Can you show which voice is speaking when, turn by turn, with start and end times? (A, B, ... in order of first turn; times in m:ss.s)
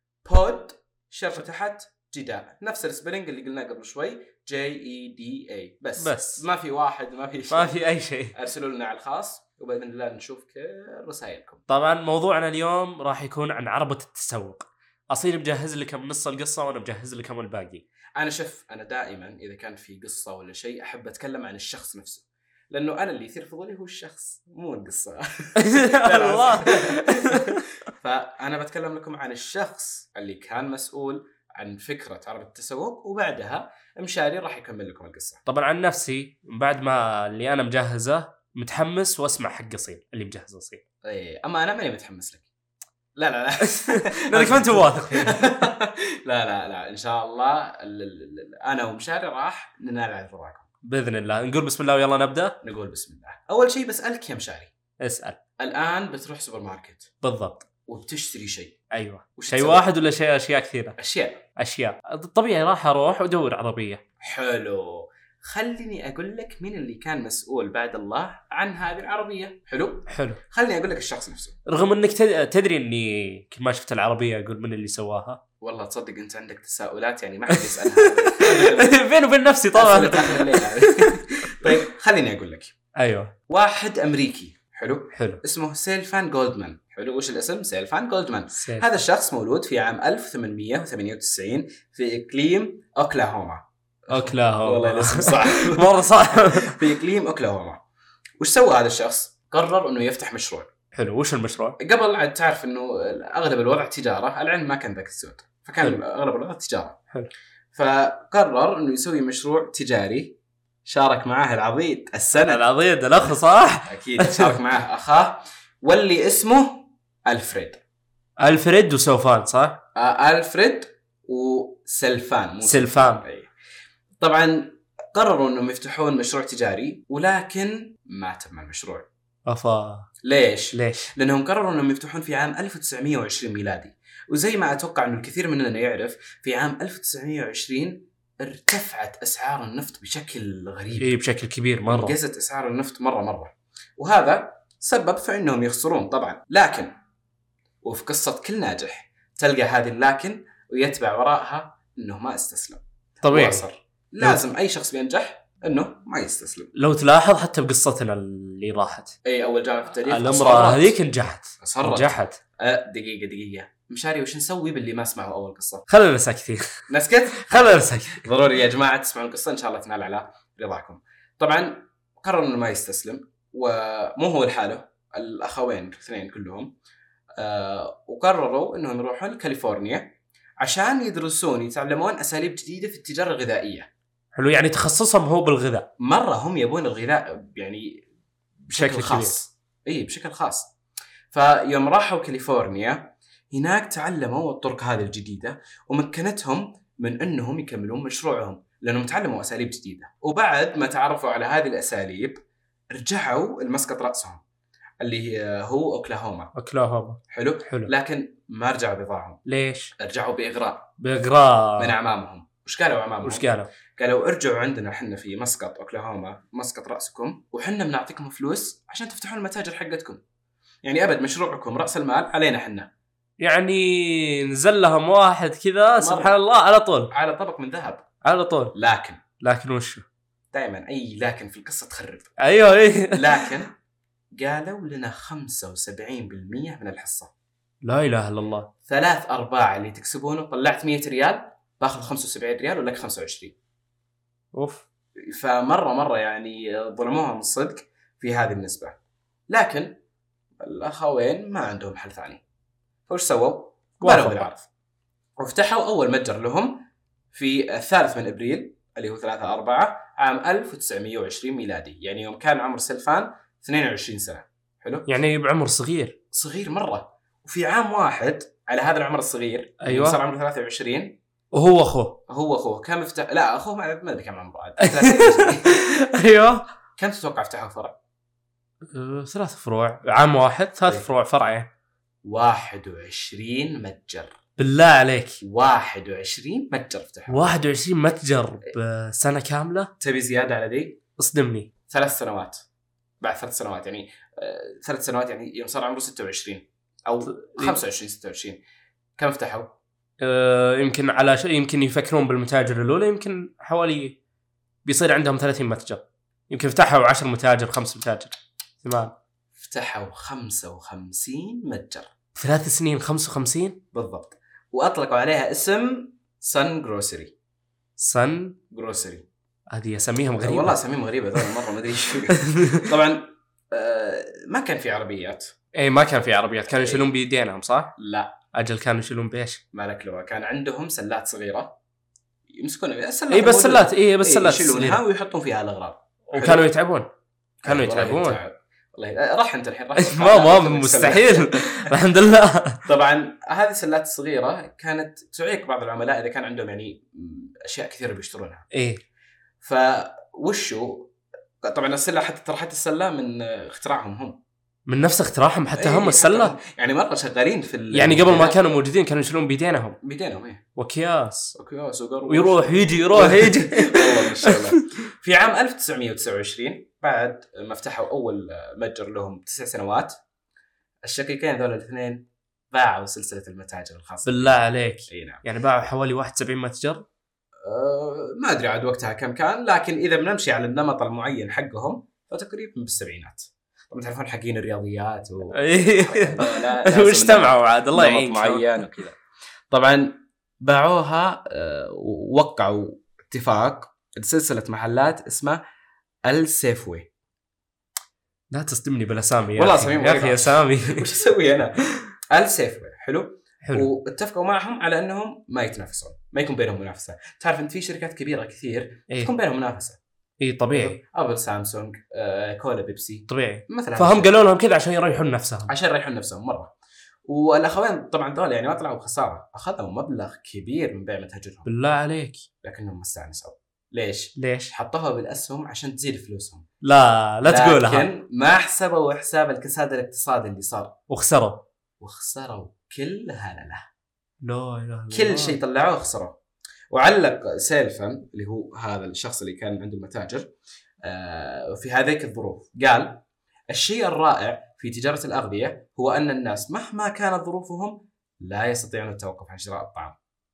0:00.2-0:07.8 A
0:06.0-0:06.4 B
0:07.5-0:08.4 B
0:08.3-0:11.6 A
0:11.7-0:17.8 B
0:18.2-0:35.4 A
0:25.6-0:27.6 B
0:35.5-0:40.8 B
0:41.0-0:42.5 A
0:43.2-0:50.7 A
0:43.8-0:45.5 B
0:50.9-0:52.6 B
0:52.6-0:54.7 A
0:55.0-0:55.4 B
0:55.6-0:57.1 A
0:57.2-0:57.7 B
0:57.9-0:58.8 A
0:58.9-1:01.0 B
0:59.4-0:59.8 A
1:01.0-1:01.4 A
1:01.6-1:04.0 B
1:04.2-1:11.6 A
1:10.1-1:10.4 B
1:11.7-1:15.4 B
1:15.6-1:19.0 A
1:17.5-1:21.2 B
1:19.7-1:22.7 A
1:23.0-1:23.3 B
1:23.5-1:37.8 A
1:25.2-1:25.4 B
1:28.6-1:28.9 B
1:34.1-1:36.8 B
1:38.4-1:40.7 A
1:41.0-1:41.8 B
1:41.8-1:47.0 A
1:47.7-1:50.3 A
1:50.9-1:52.6 A
1:52.4-1:54.6 B
1:53.9-1:57.8 A
1:58.4-1:59.8 B
2:00.0-2:03.5 A
2:02.6-2:03.2 B
2:04.2-2:09.1 A
2:09.5-2:10.1 B
2:10.2-2:21.1 A
2:10.7-2:11.1 B
2:21.0-2:22.2 B
2:21.9-2:26.9 A
2:27.8-2:36.7 A
2:33.2-2:33.6 B
2:36.8-2:39.2 B
2:39.2-2:41.0 A
2:40.1-2:42.4 B
2:41.6-2:45.8 A
2:45.9-2:46.7 B
2:46.9-2:56.7 A
2:47.3-2:48.3 B
2:57.4-3:00.1 A
3:00.6-3:03.9 A
3:04.4-3:05.9 B
3:06.0-3:08.0 A
3:08.6-3:10.7 A
3:08.8-3:09.4 B
3:11.3-3:22.4 A
3:22.9-3:24.4 A
3:25.0-3:26.5 A
3:26.6-3:27.9 B
3:27.3-3:29.4 A
3:29.5-3:29.9 B
3:30.0-3:30.9 A
3:31.0-3:32.0 B
3:31.8-3:33.5 A
3:33.2-3:33.7 B
3:34.0-3:40.2 A
3:40.8-3:42.9 A
3:43.4-3:47.1 B
3:46.0-3:46.4 A
3:47.1-3:48.0 A
3:48.2-3:48.7 B
3:48.8-3:49.2 A
3:49.4-3:50.0 B
3:50.5-3:52.4 A
3:52.4-3:53.5 B
3:53.1-3:53.7 A
3:54.4-3:57.3 A
3:57.8-3:58.7 B
3:58.9-4:03.6 A
4:04.5-4:04.8 B
4:05.3-4:09.0 A
4:09.5-4:09.9 A
4:10.6-4:12.4 A
4:13.1-4:14.7 A
4:14.0-4:14.5 B
4:15.4-4:16.8 A
4:17.3-4:25.1 A
4:25.1-4:26.2 B
4:26.3-4:31.2 A
4:29.8-4:30.2 B
4:31.5-4:32.2 B
4:32.3-4:35.8 A
4:34.8-4:36.6 B
4:37.0-4:38.0 A
4:38.9-4:41.7 B
4:40.8-4:41.1 A
4:42.2-4:44.4 A
4:44.6-4:45.4 B
4:45.4-4:47.6 A
4:47.3-4:49.9 B
4:50.0-4:51.0 A
4:51.2-4:51.7 B
4:51.9-4:52.6 A
4:53.2-4:58.6 A
4:57.3-4:57.8 B
4:59.2-4:59.7 A
5:00.2-5:04.2 B
5:04.8-5:09.1 B
5:09.6-5:12.1 A
5:12.4-5:13.8 B
5:13.9-5:17.3 A
5:18.0-5:18.6 B
5:18.7-5:19.2 A
5:19.7-5:20.8 B
5:20.4-5:25.5 A
5:22.4-5:22.9 B
5:25.8-5:27.9 B
5:28.0-5:28.4 A
5:28.5-5:29.6 B
5:29.7-5:31.8 A
5:32.6-5:36.6 A
5:33.3-5:35.0 B
5:36.3-5:37.1 B
5:37.6-5:38.4 B
5:37.6-5:42.0 A
5:40.0-5:42.8 B
5:42.9-5:48.7 A
5:48.7-5:49.0 B
5:49.6-5:51.1 A
5:51.6-5:54.4 A
5:54.9-5:56.5 B
5:55.8-5:58.6 A
5:57.9-6:00.0 B
6:00.0-6:00.6 A
6:00.8-6:01.6 B
6:01.6-6:10.1 A
6:02.3-6:04.8 B
6:11.0-6:14.6 A
6:14.2-6:17.0 B
6:15.1-6:15.4 A
6:17.6-6:29.2 A
6:25.6-6:28.8 B
6:29.7-6:35.6 A
6:36.2-6:37.1 A
6:38.5-6:41.0 B
6:39.5-6:50.0 A
6:50.4-6:51.0 B
6:50.7-6:54.3 A
6:53.3-6:55.7 B
6:55.7-6:56.7 A
6:57.3-7:01.7 A
7:01.7-7:02.4 B
7:02.6-7:06.6 A
7:04.4-7:04.7 B
7:06.8-7:08.1 B
7:07.4-7:10.9 A
7:11.1-7:11.6 B
7:12.0-7:13.9 A
7:14.4-7:15.6 B
7:15.1-7:16.4 A
7:16.9-7:20.5 A
7:21.0-7:30.2 A